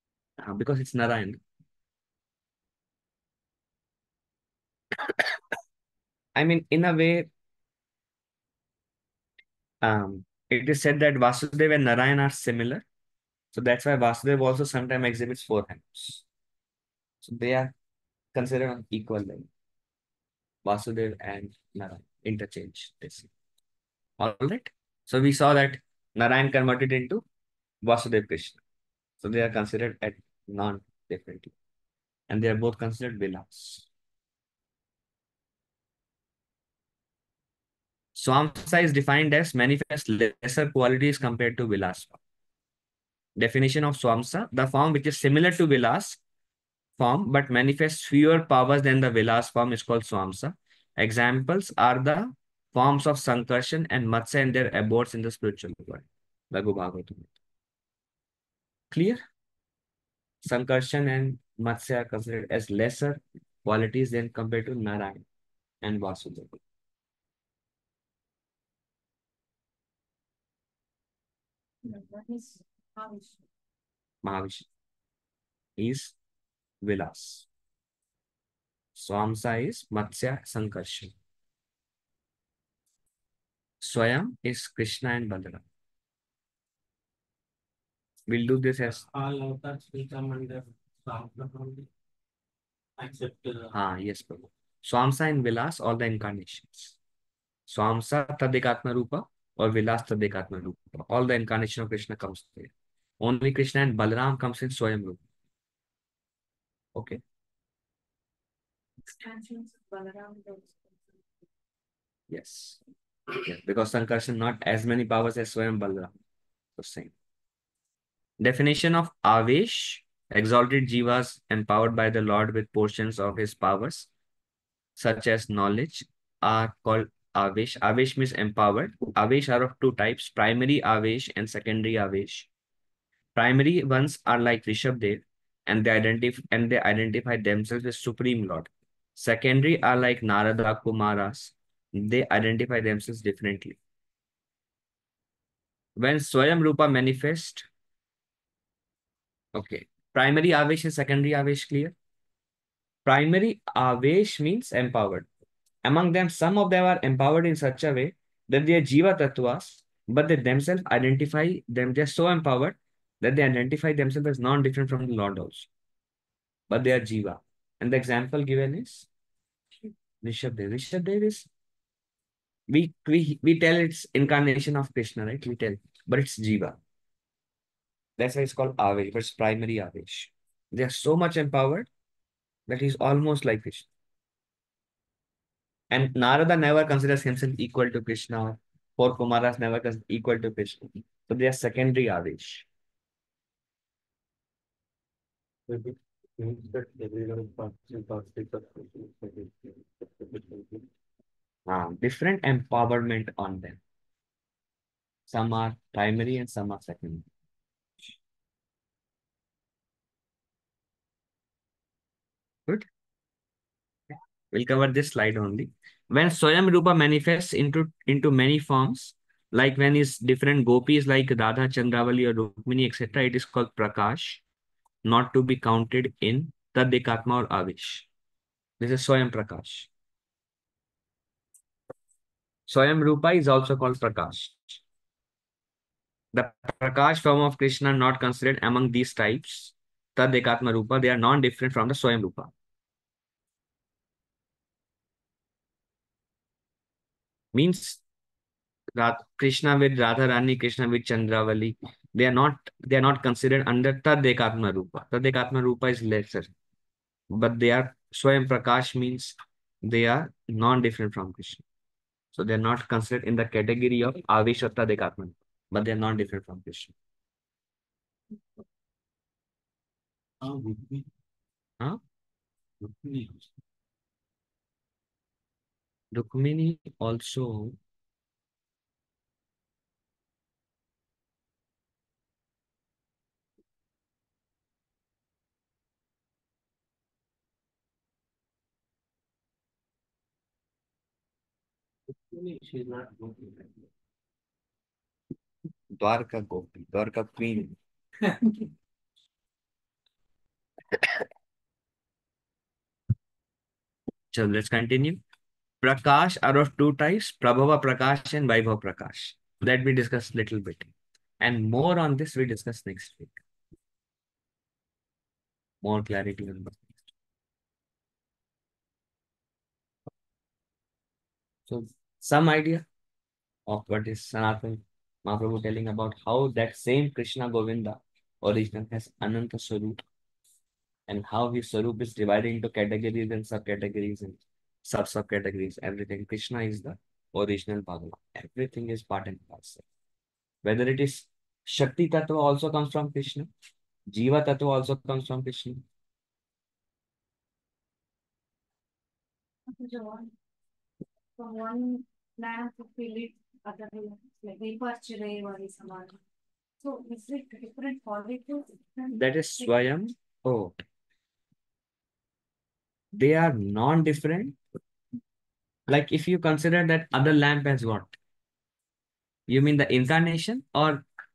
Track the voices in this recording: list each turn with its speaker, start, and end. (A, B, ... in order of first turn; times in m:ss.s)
0:00.4-0:01.4 A
0:05.0-0:05.3 A
0:06.3-0:07.3 A
0:09.8-0:12.8 A
0:13.5-0:16.2 A
0:17.2-0:17.7 A
0:18.3-0:19.5 A
0:20.6-0:23.3 A
0:24.2-0:27.2 A
0:27.8-0:28.6 A
0:29.2-0:31.5 A
0:32.3-0:33.9 A
0:38.1-0:42.2 A
0:43.4-0:46.2 A
0:47.0-0:57.3 A
0:58.9-0:59.2 A
1:00.4-1:05.2 A
1:05.8-1:06.6 A
1:11.8-1:13.4 B
1:14.2-1:14.7 A
1:15.8-1:16.1 A
1:16.8-1:17.5 A
1:18.9-1:21.1 A
1:23.8-1:25.6 A
1:28.3-1:29.0 A
1:29.1-1:30.5 C
1:29.5-1:30.6 D
1:31.1-1:31.8 D
1:31.1-1:31.4 C
1:33.0-1:33.6 C
1:33.7-1:37.0 A
1:37.7-1:45.2 A
1:46.9-1:47.2 A
1:49.2-1:51.4 B
1:52.3-1:52.8 A
1:53.4-1:56.1 A
1:56.8-1:57.1 A
1:58.4-2:04.1 A
2:05.0-2:12.5 A
2:13.4-2:23.8 A
2:26.0-2:27.7 A
2:29.5-2:31.9 A
2:33.0-2:35.3 A
2:35.8-2:45.7 A
2:46.7-2:49.1 A
2:50.2-2:51.5 A
2:52.7-2:56.8 A
2:58.2-3:01.9 A
3:02.7-3:03.9 A
3:05.9-3:12.7 A
3:15.7-3:20.9 D
3:21.7-3:23.8 A
3:25.3-3:27.3 A
3:34.5-3:44.4 A
3:45.0-3:48.1 A
3:48.8-3:49.9 A
3:52.7-3:54.8 A
3:56.3-4:02.5 A
4:07.5-4:08.0 A
4:08.9-4:16.5 A
4:17.3-4:21.6 A
4:22.3-4:26.9 A
4:30.4-4:31.0 D
4:32.8-4:33.4 D
4:36.1-4:37.8 A
4:52.4-4:53.8 D
4:55.9-4:57.8 A
5:04.3-5:05.2 A
5:05.8-5:13.4 A
5:15.8-5:17.0 A
5:21.7-5:22.8 A
5:23.7-5:30.0 A
5:31.1-5:39.8 A
5:40.6-5:43.5 A
5:44.1-5:45.8 A
5:49.7-5:50.3 B
5:51.4-5:56.2 B
5:56.8-5:59.7 B
5:59.2-6:00.8 A
6:03.1-6:04.6 A
6:05.9-6:08.2 A
6:09.5-6:11.0 A